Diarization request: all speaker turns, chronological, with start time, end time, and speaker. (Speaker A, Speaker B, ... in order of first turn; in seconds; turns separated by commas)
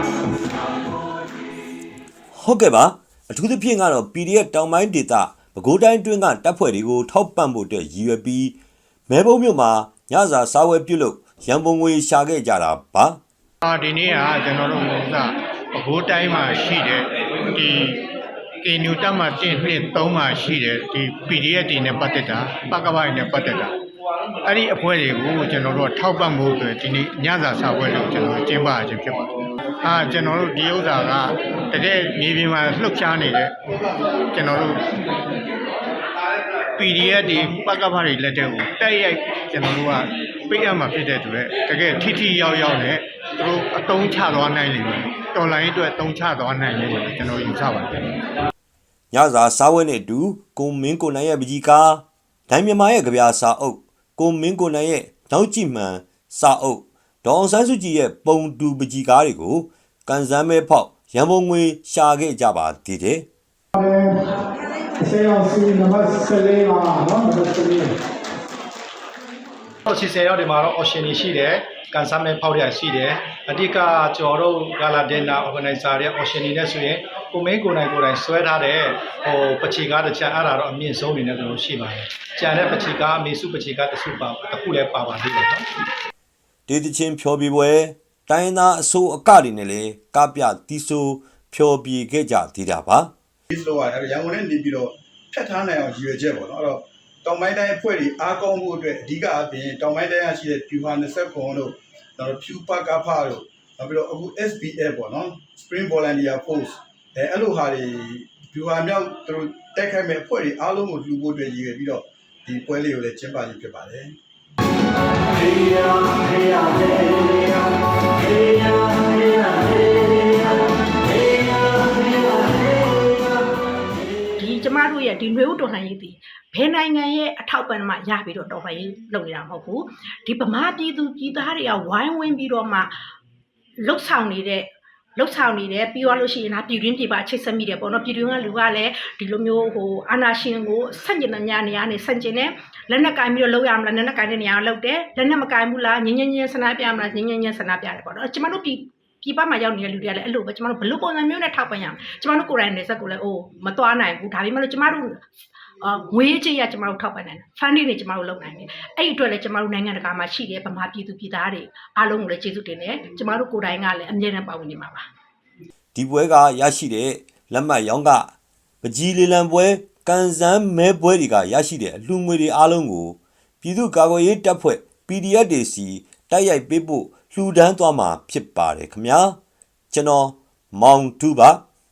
Speaker A: 2.3-8.6, Speaker A: 9.1-13.2, Speaker B: 13.6-18.0, Speaker B: 18.6-23.7, Speaker B: 24.4-29.3, Speaker B: 29.8-34.8, Speaker B: 36.8-48.0, Speaker A: 49.1-63.3, Speaker C: 63.8-64.2, Speaker C: 65.0-67.9, Speaker D: 69.8-85.7, Speaker A: 86.7-93.1, Speaker E: 93.5-114.1, Speaker F: 124.3-132.9, Speaker F: 133.8-155.2, Speaker F: 155.8-165.1, Speaker A: 165.9-179.4, Speaker A: 179.9-181.6